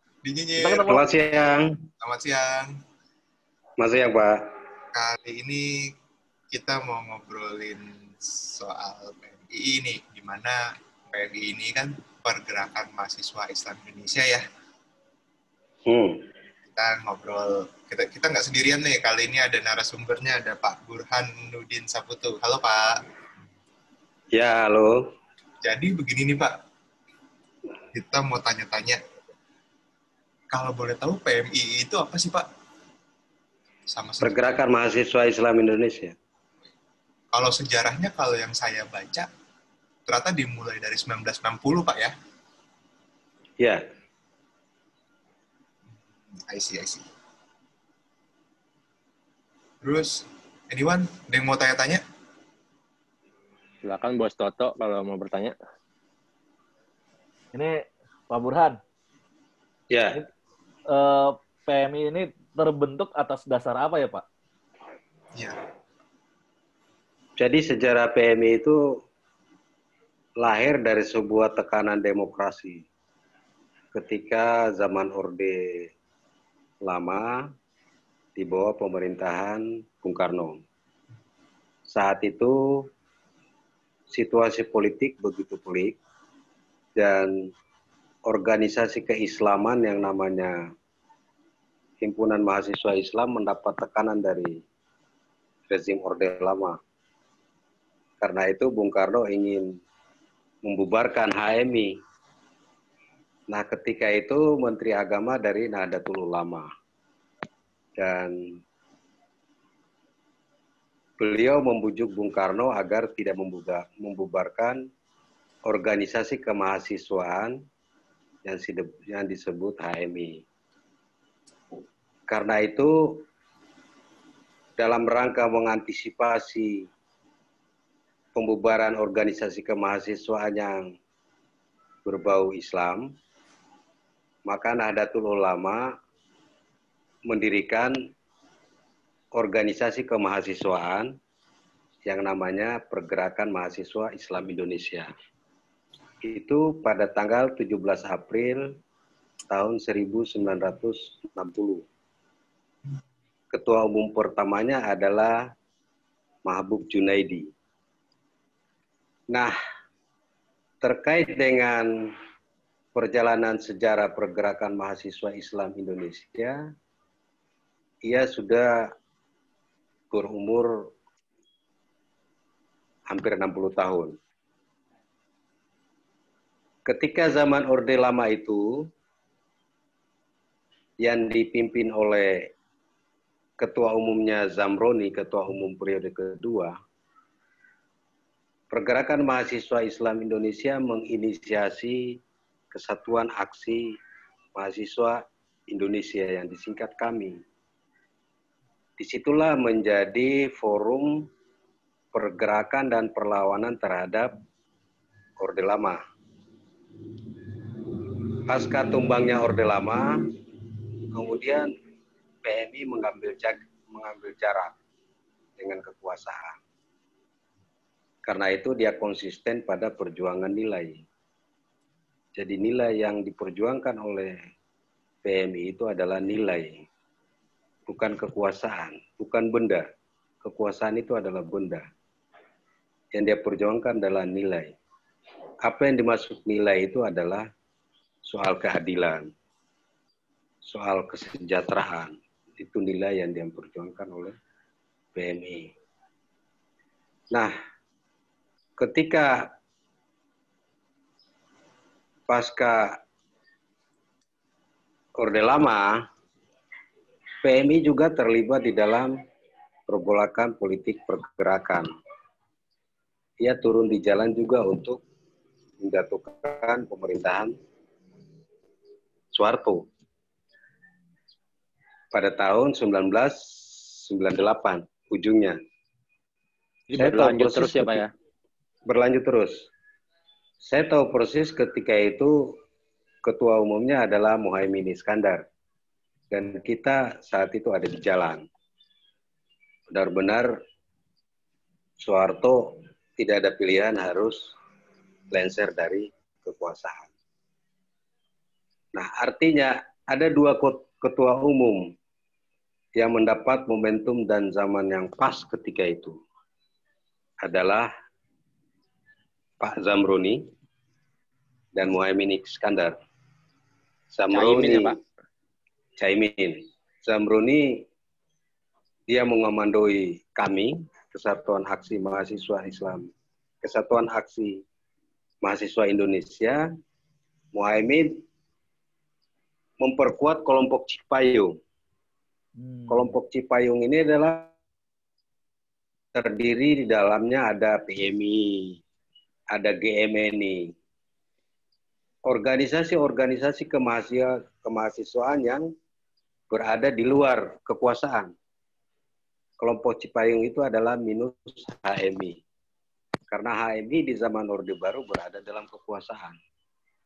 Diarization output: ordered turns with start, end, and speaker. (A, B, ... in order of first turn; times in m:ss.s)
0:00.2-0:00.9 A
0:00.6-0:01.1 B
0:00.9-0:01.8 C
0:02.0-0:02.8 A
0:03.8-0:04.4 C
0:04.9-0:05.9 A
0:06.5-0:14.4 A
0:15.9-0:16.2 C
0:16.7-0:23.0 A
0:24.3-0:25.0 C
0:25.6-0:26.6 A
0:27.9-0:29.0 A
0:30.5-0:32.5 A
0:33.9-0:34.3 A
0:34.2-0:36.2 C
0:37.3-0:39.3 A
0:40.1-0:42.1 A
0:46.4-0:47.0 A
0:49.8-0:52.0 A
0:53.8-0:55.6 D
0:57.5-0:58.8 B
0:59.9-1:00.2 C
1:00.9-1:04.2 B
1:07.4-1:08.9 C
1:10.4-1:12.8 C
1:13.9-1:15.9 C
1:16.8-1:17.5 C
1:18.4-1:20.6 C
1:21.9-1:22.9 C
1:24.1-1:26.0 C
1:27.0-1:27.3 C
1:28.3-1:30.6 C
1:32.0-1:34.6 C
1:35.7-1:36.8 C
1:38.2-1:39.8 C
1:40.6-1:41.9 C
1:43.5-1:46.7 C
1:48.0-1:48.5 C
1:51.2-1:54.9 C
1:55.7-1:57.6 C
1:58.4-2:00.4 C
2:02.3-2:03.2 C
2:04.8-2:06.9 C
2:08.4-2:10.9 C
2:12.0-2:13.1 C
2:14.5-2:16.0 C
2:17.3-2:18.0 C
2:19.4-2:21.1 C
2:22.1-2:25.1 C
2:26.2-2:28.7 C
2:29.5-2:31.8 C
2:33.5-2:35.5 C
2:36.5-2:37.5 C
2:40.8-2:42.1 C
2:43.0-2:46.6 C
2:48.1-2:48.9 C
2:50.1-2:50.9 C
2:53.1-2:54.2 C
2:56.9-2:58.9 C
3:01.0-3:02.5 C
3:03.6-3:06.8 C
3:08.7-3:12.2 C
3:12.7-3:14.0 C
3:14.6-3:17.4 C
3:19.0-3:21.3 C
3:22.1-3:24.4 C
3:25.4-3:26.0 C
3:28.5-3:30.2 C
3:31.1-3:31.7 C
3:32.4-3:34.8 C
3:35.6-3:36.6 C
3:38.3-3:41.0 C
3:42.4-3:44.4 C
3:45.2-3:46.8 C
3:47.9-3:49.9 C
3:50.4-3:51.8 C
3:53.2-3:54.8 C
3:55.6-3:57.5 C
3:58.3-3:59.3 C
4:00.7-4:04.3 C
4:05.2-4:05.7 C
4:08.8-4:09.5 C
4:12.3-4:13.0 C
4:15.2-4:16.0 C
4:17.4-4:19.2 C
4:19.9-4:21.9 C
4:23.4-4:25.0 C
4:25.8-4:27.6 C
4:29.3-4:29.9 C
4:32.1-4:35.6 C
4:36.9-4:38.1 D
4:36.9-4:38.0 C
4:38.9-4:39.7 C
4:40.6-4:42.5 C
4:43.2-4:45.4 C
4:46.3-4:48.4 C
4:49.9-4:50.6 C
4:52.0-4:54.5 C
4:55.3-4:57.1 C
4:58.9-5:01.9 C
5:03.0-5:06.2 C
5:07.4-5:07.9 C
5:09.6-5:10.5 C
5:11.8-5:13.0 C
5:14.1-5:15.0 C
5:14.3-5:15.0 D
5:16.0-5:17.8 C
5:19.1-5:23.1 C
5:23.6-5:24.6 C
5:25.4-5:26.7 C
5:27.5-5:28.2 C
5:29.8-5:31.5 C
5:32.6-5:33.1 B
5:32.9-5:34.5 C
5:36.1-5:38.8 C
5:39.5-5:40.7 C
5:42.3-5:45.7 C
5:46.5-5:48.3 C
5:49.6-5:52.4 C
5:53.3-5:56.4 C